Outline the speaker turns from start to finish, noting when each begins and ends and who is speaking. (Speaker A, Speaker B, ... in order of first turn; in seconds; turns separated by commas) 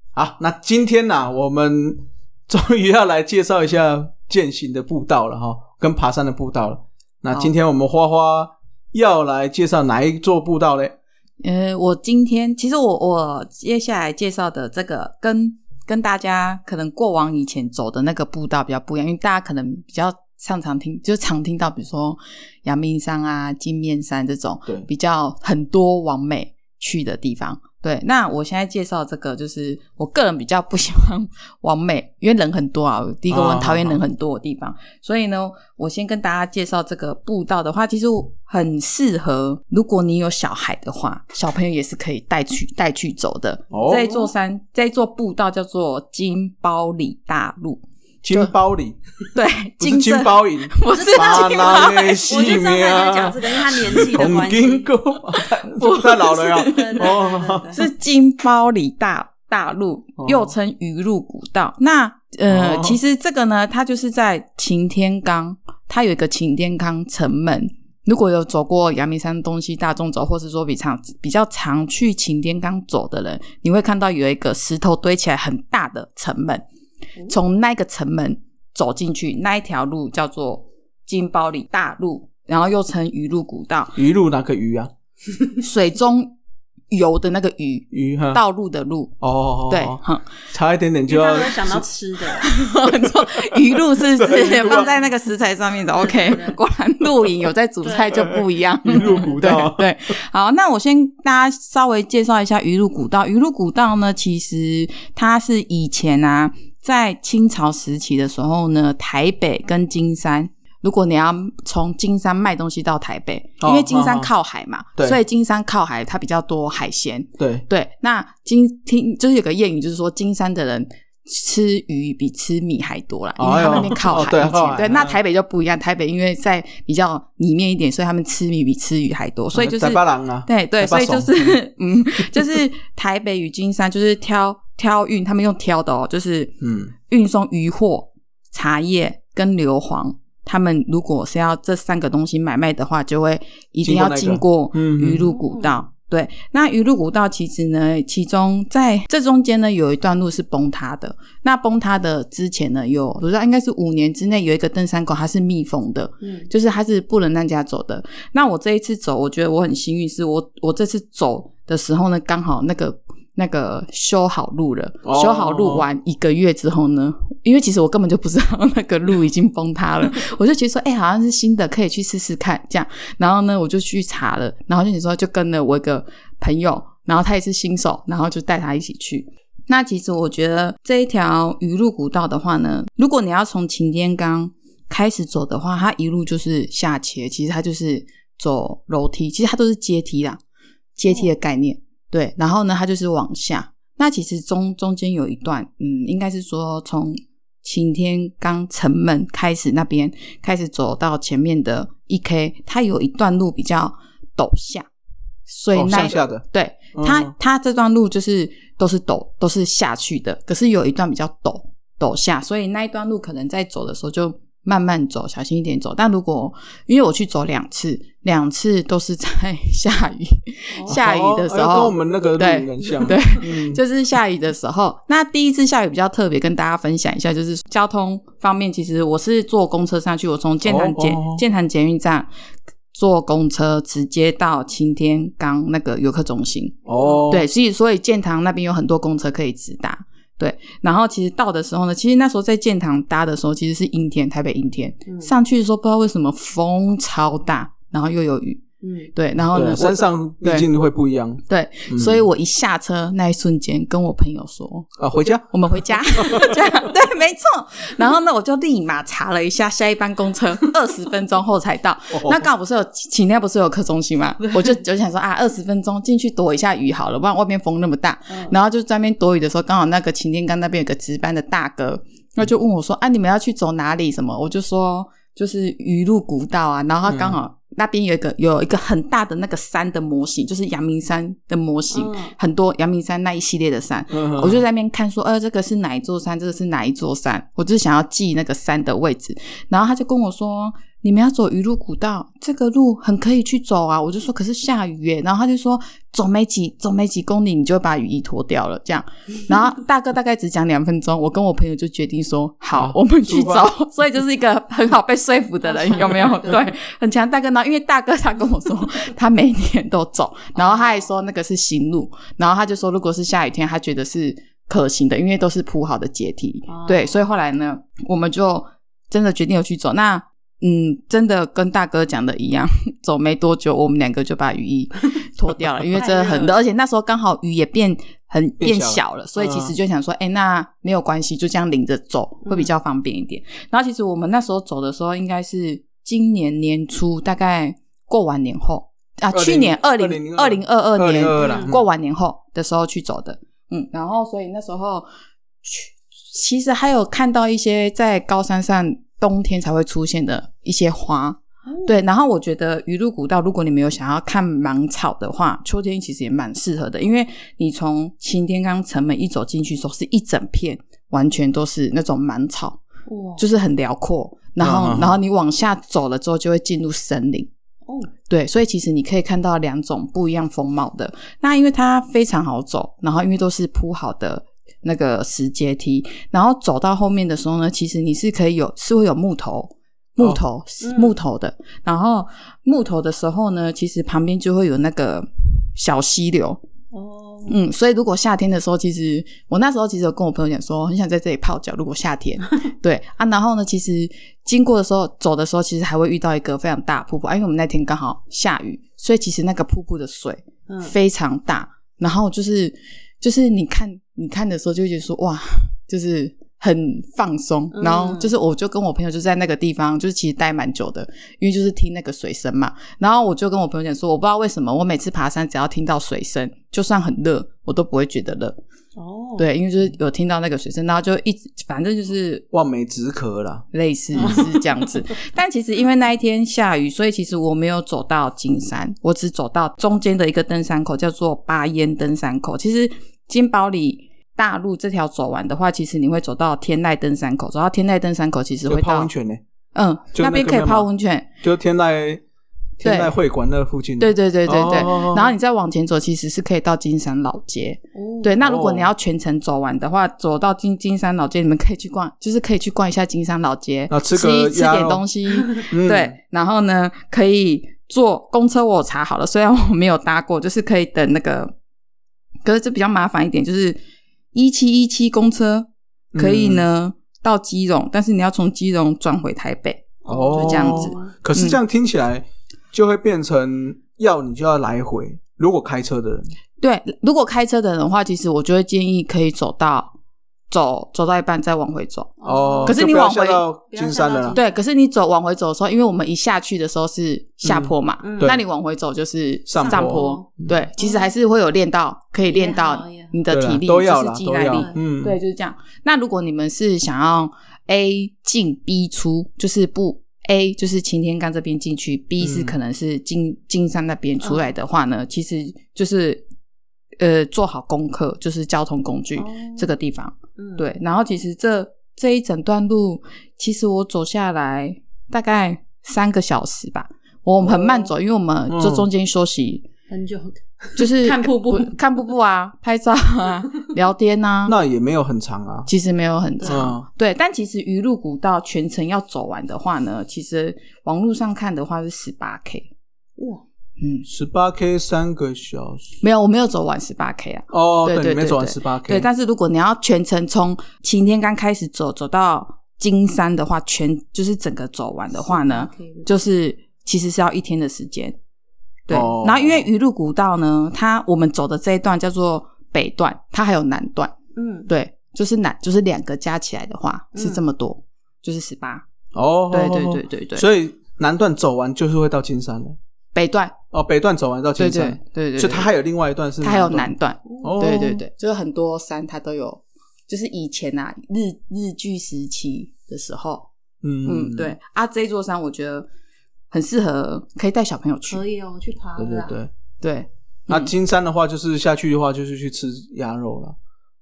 Speaker A: 0.1-10.9, Speaker B: 11.4-48.5, Speaker A: 33.3-34.0, Speaker A: 43.7-44.1, Speaker C: 43.8-44.3, Speaker A: 48.2-49.0, Speaker B: 49.3-52.1, Speaker A: 49.8-57.7, Speaker C: 50.9-54.9, Speaker B: 55.6-57.1, Speaker C: 56.5-57.9, Speaker B: 57.7-76.6, Speaker A: 60.2-60.5, Speaker A: 62.5-63.0, Speaker B: 77.3-84.0, Speaker A: 84.0-84.9, Speaker B: 85.6-86.3, Speaker B: 86.9-89.1, Speaker A: 87.9-88.4, Speaker A: 89.2-91.8, Speaker B: 89.7-90.3, Speaker C: 91.1-92.5, Speaker B: 92.4-136.5, Speaker A: 93.5-94.9, Speaker C: 94.3-94.9, Speaker C: 95.9-96.6, Speaker C: 97.8-99.4, Speaker A: 98.8-99.9, Speaker A: 113.6-114.3, Speaker A: 117.4-117.7, Speaker A: 123.4-125.2, Speaker A: 129.5-131.6, Speaker A: 132.2-132.6, Speaker A: 136.6-136.9, Speaker B: 137.1-190.4, Speaker A: 143.8-145.3, Speaker C: 145.3-145.8, Speaker C: 156.2-156.5, Speaker A: 165.0-165.8, Speaker B: 191.0-204.9, Speaker B: 205.5-232.3, Speaker A: 205.7-207.3, Speaker A: 220.9-223.8, Speaker A: 230.6-231.4, Speaker B: 232.9-236.8, Speaker A: 236.8-237.4, Speaker C: 237.0-237.3, Speaker B: 237.3-248.6, Speaker C: 245.1-245.3, Speaker C: 248.8-249.1, Speaker B: 249.1-250.7, Speaker A: 249.5-252.2, Speaker B: 251.5-254.9, Speaker A: 255.0-256.9, Speaker B: 255.5-345.1, Speaker A: 262.1-262.5, Speaker C: 268.3-268.5, Speaker A: 277.1-277.4, Speaker C: 281.9-282.3, Speaker A: 284.1-284.6, Speaker A: 302.7-303.7, Speaker C: 305.6-306.7, Speaker C: 310.5-311.0, Speaker C: 316.7-317.2, Speaker C: 325.9-326.6, Speaker A: 328.6-329.7, Speaker C: 332.4-332.7, Speaker A: 339.3-341.9, Speaker C: 341.4-341.7, Speaker B: 345.6-362.8, Speaker C: 351.7-351.9, Speaker C: 363.1-363.4, Speaker B: 363.4-367.5, Speaker A: 364.6-365.2, Speaker C: 367.8-368.1, Speaker B: 368.3-386.6, Speaker C: 380.8-381.2, Speaker C: 386.9-387.6, Speaker B: 387.5-418.6, Speaker C: 400.7-400.9, Speaker C: 407.7-408.3, Speaker C: 418.9-419.4, Speaker B: 419.4-422.4, Speaker A: 422.5-424.4, Speaker B: 423.7-439.1, Speaker C: 424.2-424.6, Speaker A: 438.7-439.4, Speaker B: 439.7-441.3, Speaker A: 440.1-440.9, Speaker A: 441.4-442.2, Speaker A: 442.8-445.3, Speaker B: 442.8-443.1, Speaker B: 444.0-461.5, Speaker C: 447.9-448.4, Speaker A: 448.4-448.9, Speaker A: 453.9-455.0, Speaker A: 455.6-456.1, Speaker B: 462.4-463.8, Speaker B: 464.3-471.6, Speaker A: 466.1-466.6, Speaker C: 470.0-471.1, Speaker A: 470.1-476.3, Speaker B: 476.6-479.9, Speaker B: 480.5-482.1, Speaker C: 482.2-482.8, Speaker A: 482.2-484.4, Speaker B: 482.6-483.4, Speaker C: 483.7-484.5, Speaker B: 484.3-506.2, Speaker A: 487.4-488.4, Speaker C: 488.0-488.4, Speaker A: 489.5-490.5, Speaker C: 489.6-490.2, Speaker C: 490.8-491.1, Speaker C: 492.3-493.1, Speaker A: 493.3-495.2, Speaker C: 494.5-494.8, Speaker A: 502.2-502.6, Speaker C: 504.2-504.5, Speaker B: 507.0-519.7, Speaker C: 509.2-509.7, Speaker C: 510.4-510.6, Speaker C: 517.4-517.9, Speaker A: 518.5-518.9, Speaker C: 519.9-521.8, Speaker B: 520.8-524.5, Speaker A: 524.5-525.7, Speaker B: 525.7-532.7, Speaker C: 526.4-526.7, Speaker A: 526.4-526.9, Speaker C: 533.2-533.4, Speaker B: 533.8-534.1, Speaker A: 534.0-536.0, Speaker B: 536.0-548.1, Speaker A: 537.5-539.1, Speaker C: 545.2-546.1, Speaker B: 548.9-554.1, Speaker A: 548.9-549.7, Speaker C: 554.4-554.7, Speaker B: 554.7-558.9, Speaker C: 557.1-557.4, Speaker A: 559.1-562.8, Speaker B: 559.5-560.5, Speaker B: 563.1-563.5, Speaker A: 563.7-568.0, Speaker B: 564.6-565.7, Speaker B: 566.4-573.5, Speaker C: 567.2-567.5, Speaker A: 573.8-574.5, Speaker B: 574.0-575.9, Speaker B: 576.5-578.2, Speaker C: 578.1-579.4, Speaker A: 579.0-579.5, Speaker B: 579.8-580.7, Speaker A: 580.5-583.5